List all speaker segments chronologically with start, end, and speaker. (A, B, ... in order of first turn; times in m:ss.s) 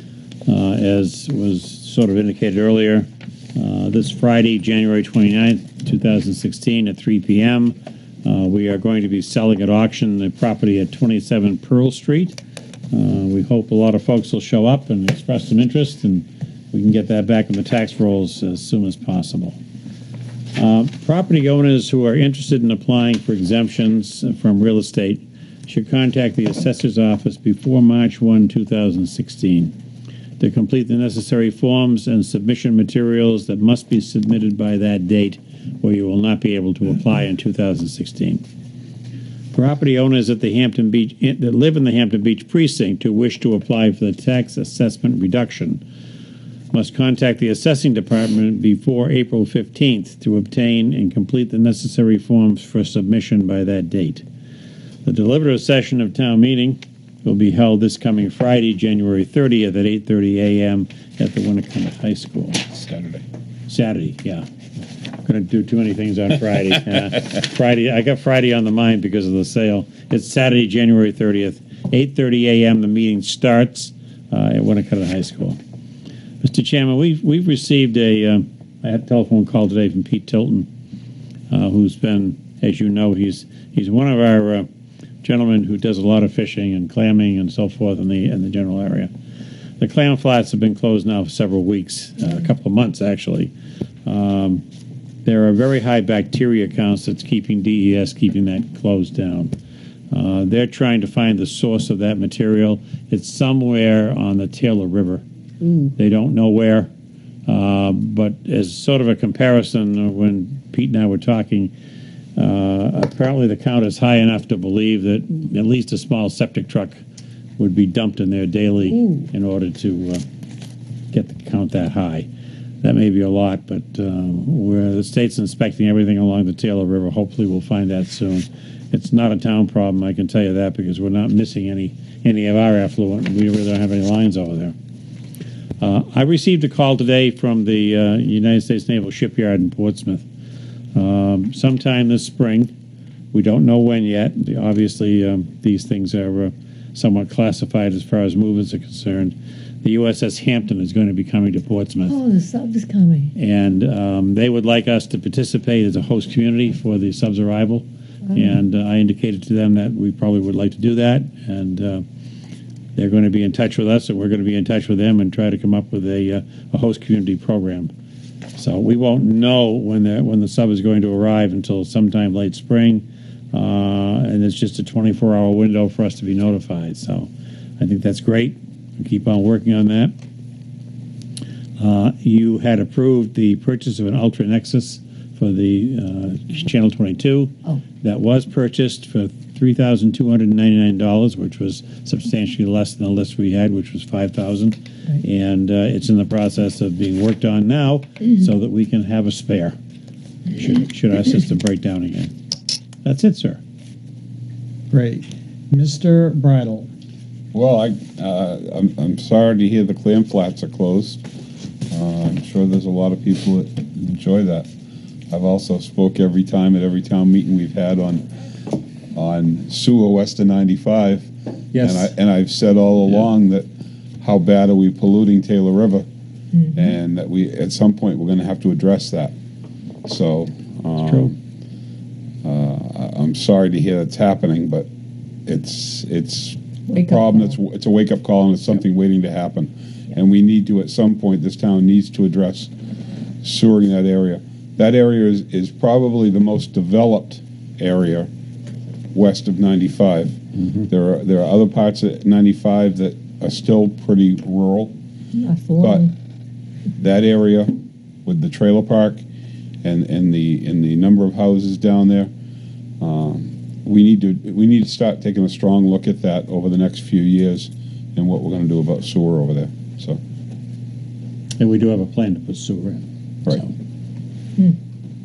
0:00.4-0:12.4 A
0:12.9-0:19.6 A
0:20.6-0:29.7 A
0:30.4-0:38.4 A
0:39.5-0:45.8 A
0:46.7-0:54.2 A
0:55.0-1:02.6 A
1:02.7-1:03.2 B
1:03.7-1:04.4 A
1:05.2-1:15.6 A
1:16.4-1:20.7 A
1:21.5-1:24.7 A
1:25.2-1:29.1 A
1:29.8-1:33.5 A
1:34.0-1:34.6 A
1:35.2-1:39.5 A
1:40.1-1:45.2 A
1:46.0-1:46.9 A
1:47.5-1:51.7 A
1:52.4-1:57.0 A
1:57.6-2:00.2 A
1:58.9-1:59.2 C
2:01.1-2:02.2 A
2:02.8-2:14.7 A
2:15.8-2:20.2 A
2:20.9-2:22.7 A
2:23.3-2:32.2 A
2:32.1-2:33.3 C
2:33.4-2:42.0 A
2:43.0-2:47.9 A
2:48.6-3:00.1 A
3:01.8-3:19.8 A
3:20.5-3:22.3 A
3:23.0-3:23.6 A
3:24.9-3:26.9 D
3:27.5-3:31.2 B
3:31.9-3:34.7 B
3:35.3-3:38.2 B
3:39.2-3:43.7 B
3:44.2-3:46.1 B
3:46.5-3:46.8 C
3:46.7-3:49.3 B
3:50.0-3:51.4 B
3:52.4-3:54.9 B
3:55.4-4:02.7 B
3:56.9-3:57.6 C
4:03.4-4:08.3 B
4:09.1-4:14.9 B
4:15.3-4:16.1 C
4:17.0-4:17.7 B
4:18.2-4:19.2 B
4:19.8-4:22.3 B
4:23.0-4:30.2 B
4:31.6-4:33.7 A